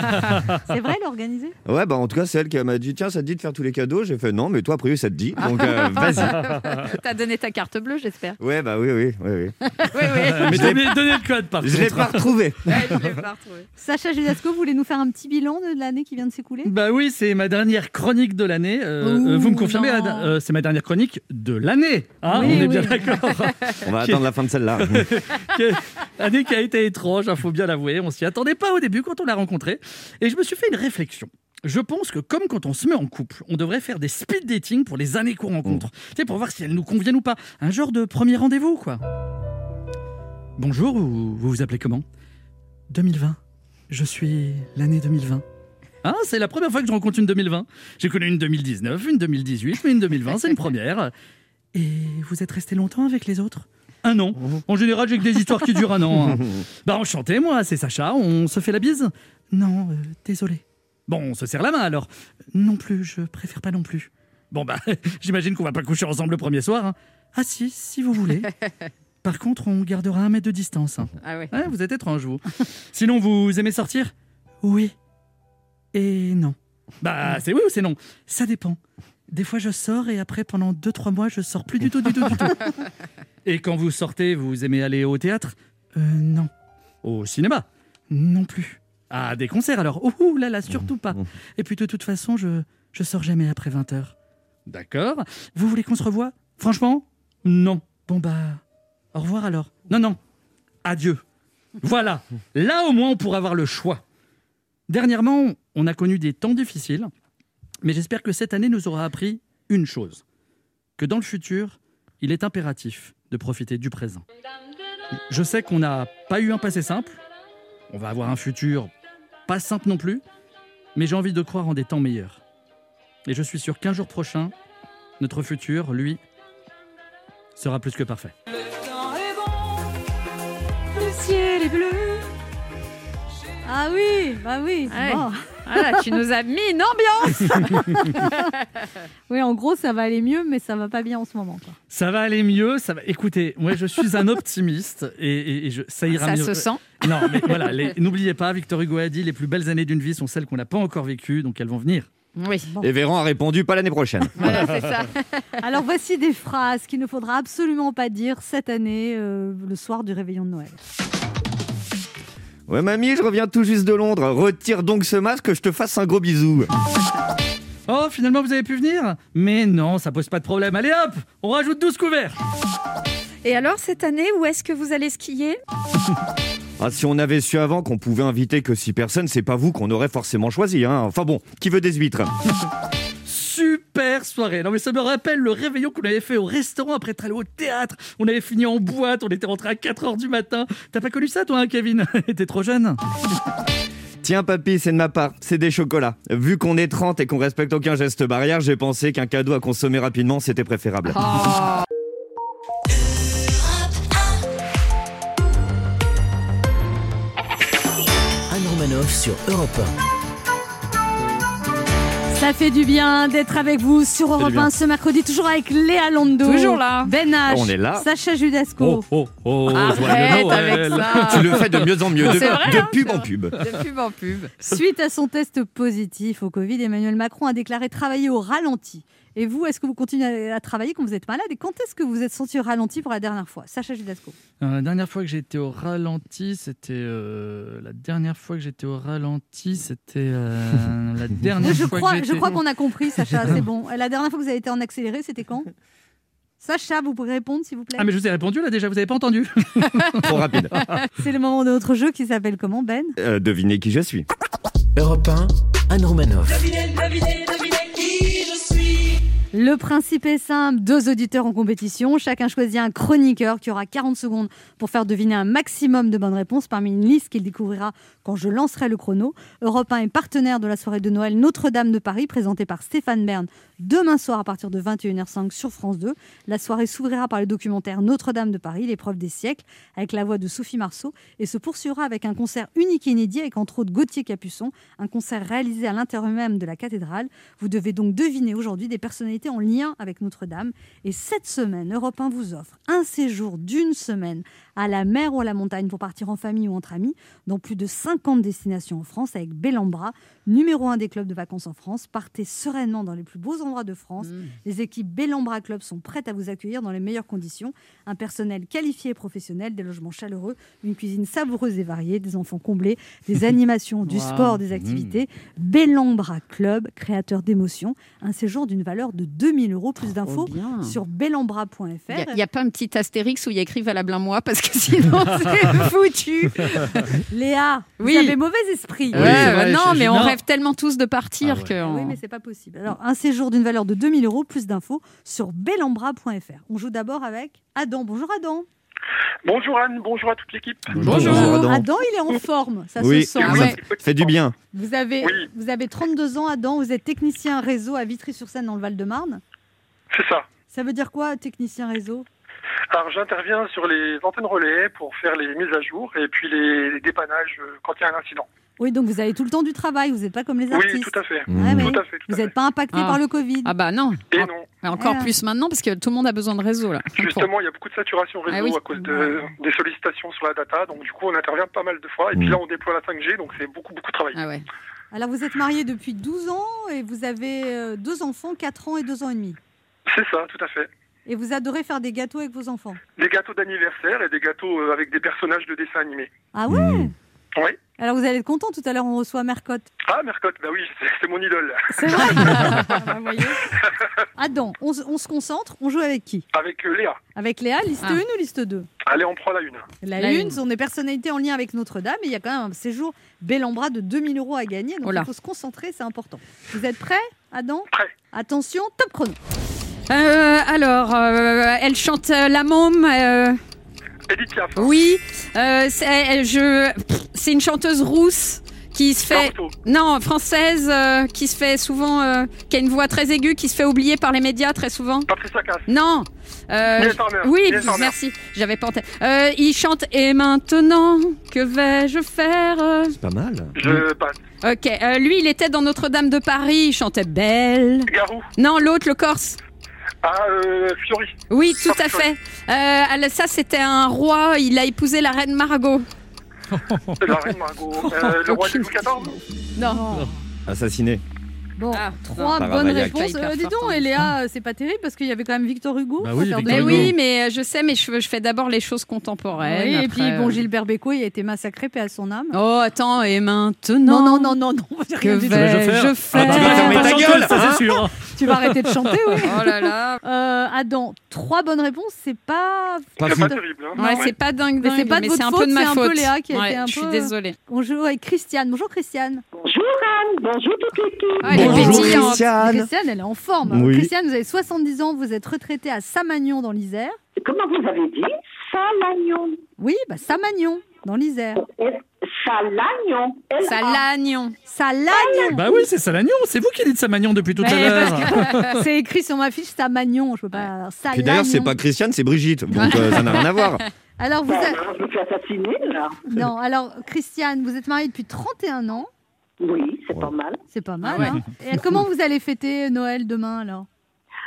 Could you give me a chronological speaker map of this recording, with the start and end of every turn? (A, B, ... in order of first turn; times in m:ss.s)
0:00.7-0:01.6 A
0:01.6-0:06.4 B
0:05.4-0:08.4 C
0:08.4-0:09.6 B
0:09.8-0:11.2 C
0:10.3-0:10.9 B
0:10.3-0:13.2 D
0:11.6-0:12.7 B
0:12.7-0:13.7 C
0:13.8-0:16.7 A
0:16.6-0:24.3 D
0:19.0-0:20.2 A
0:19.4-0:19.7 C
0:22.3-0:23.2 A
0:23.8-0:25.1 B
0:24.8-0:39.0 D
0:40.6-0:42.0 D
0:42.9-0:43.4 D
0:43.9-0:45.4 D
0:46.0-0:51.1 D
0:51.7-1:08.5 D
1:09.2-1:14.9 D
1:11.2-1:11.5 C
1:15.9-1:18.8 D
1:19.3-1:22.8 D
1:23.4-1:26.5 D
1:27.0-1:34.1 D
1:34.7-1:38.6 D
1:39.1-1:40.2 D
1:40.8-1:41.2 D
1:41.8-1:44.0 D
1:44.9-1:47.1 D
1:47.8-1:50.2 D
1:51.0-1:54.2 D
1:55.3-1:57.2 D
1:57.9-1:58.9 D
1:59.5-2:00.2 D
2:01.0-2:02.4 D
2:03.3-2:04.5 D
2:05.2-2:06.2 D
2:07.6-2:08.3 D
2:10.9-2:12.3 C
2:13.7-2:16.2 A
2:14.9-2:18.4 C
2:17.5-2:18.4 A
2:19.3-2:21.8 A
2:21.9-2:32.1 D
2:26.1-2:27.8 C
2:32.4-2:32.7 C
2:32.8-2:34.6 B
2:34.4-2:35.4 C
2:34.4-2:34.8 D
2:35.6-2:40.8 A
2:42.7-2:46.7 B
2:47.9-2:52.4 D
2:53.4-2:55.6 C
2:56.8-3:02.3 B
3:03.3-3:13.0 D
3:14.2-3:21.2 B
3:21.1-3:21.8 C
3:28.5-3:29.9 E
3:32.3-3:39.1 A
3:34.4-3:34.7 B
3:36.4-3:37.1 C
3:37.5-3:38.1 B
3:38.8-3:42.8 D
3:39.7-3:44.5 C
3:39.8-3:43.6 B
3:44.6-3:54.4 A
3:54.6-4:02.6 D
4:01.6-4:05.7 A
4:06.6-4:08.1 A
4:08.0-4:10.3 D
4:10.2-4:10.8 B
4:11.2-4:13.2 A
4:13.2-4:14.3 B
4:15.0-4:16.7 E
4:19.5-5:22.4 A
5:04.2-5:04.5 C
5:14.1-5:15.1 D
5:20.1-5:21.0 C
5:22.1-5:27.1 C
5:27.3-5:29.4 A
5:28.0-5:28.4 C
5:29.1-5:30.4 D
5:29.1-5:32.2 C
5:29.2-5:29.5 B
5:31.4-5:31.8 D
5:31.8-5:38.7 A
5:39.4-5:41.1 F
5:40.9-5:41.5 D
5:41.0-5:41.9 B
5:41.0-5:41.7 C
5:41.1-5:43.7 A
5:43.0-5:44.6 B
5:43.4-5:43.8 C
5:43.6-5:44.3 F
5:44.7-5:49.4 A
5:45.2-5:45.5 F
5:50.1-5:50.4 F
5:50.7-5:52.2 A
5:52.9-5:58.5 F
5:58.8-6:03.7 A
6:00.7-6:02.5 F
6:01.5-6:02.0 B
6:02.9-6:07.5 C
6:04.3-6:04.7 F
6:04.9-6:05.3 A
6:07.2-6:14.4 F
6:08.5-6:08.8 C
6:09.0-6:09.4 A
6:14.3-6:14.6 C
6:15.1-6:19.6 A
6:20.1-6:20.9 F
6:21.3-6:23.0 A
6:23.2-6:26.3 F
6:26.5-6:27.1 A
6:26.7-6:27.1 B
6:28.0-6:29.9 A
6:30.1-6:32.1 F
6:32.0-6:33.6 C
6:32.0-6:33.1 A
6:34.4-6:36.4 A
6:36.5-6:37.2 F
6:37.4-6:38.9 A
6:39.1-6:39.8 F
6:40.0-6:49.4 A
6:40.2-6:40.6 C
6:45.0-6:45.3 C
6:50.1-6:53.6 C
6:54.3-6:54.9 F
6:54.8-7:05.3 C
6:59.3-6:59.8 F
7:05.3-7:05.9 F
7:05.9-7:13.2 C
7:06.9-7:08.2 F
7:13.1-7:14.0 B
7:13.8-7:14.4 F
7:14.6-7:19.6 C
7:18.1-7:18.5 F
7:20.2-7:22.3 F
7:21.5-7:26.1 C
7:26.7-7:27.5 D
7:27.2-7:29.4 F
7:28.2-7:29.1 C
7:29.8-7:30.0 C
7:29.8-7:30.4 A
7:30.7-7:31.2 B
7:31.8-7:37.1 A
7:31.9-7:34.1 C
7:32.6-7:33.2 B
7:36.2-7:37.2 D
7:36.6-7:40.6 C
7:39.6-7:42.6 A
7:42.5-7:44.6 C
7:44.0-7:54.3 A
7:45.2-7:47.4 C
7:45.4-7:49.1 D
7:46.5-7:47.6 B
7:49.4-7:50.2 C
7:53.2-7:53.6 B
7:53.2-7:54.3 F
7:54.0-7:57.6 C
7:54.8-7:59.4 A
7:59.5-8:02.1 G
8:01.4-8:02.4 C
8:01.5-8:02.9 B
8:01.5-8:07.2 A
8:03.7-8:04.1 B
8:07.4-8:09.6 G
8:09.8-8:11.6 A
8:11.6-8:14.0 G
8:13.6-8:14.6 C
8:14.7-8:15.6 A
8:15.1-8:15.6 G
8:15.5-8:18.8 D
8:17.6-8:21.8 A
8:18.2-8:18.5 C
8:21.1-8:23.8 B
8:22.7-8:23.8 C
8:24.2-8:24.8 A
8:24.5-8:26.2 G
8:26.3-8:29.1 A
8:29.6-8:30.6 G
8:30.7-8:33.9 A
8:31.0-8:31.4 C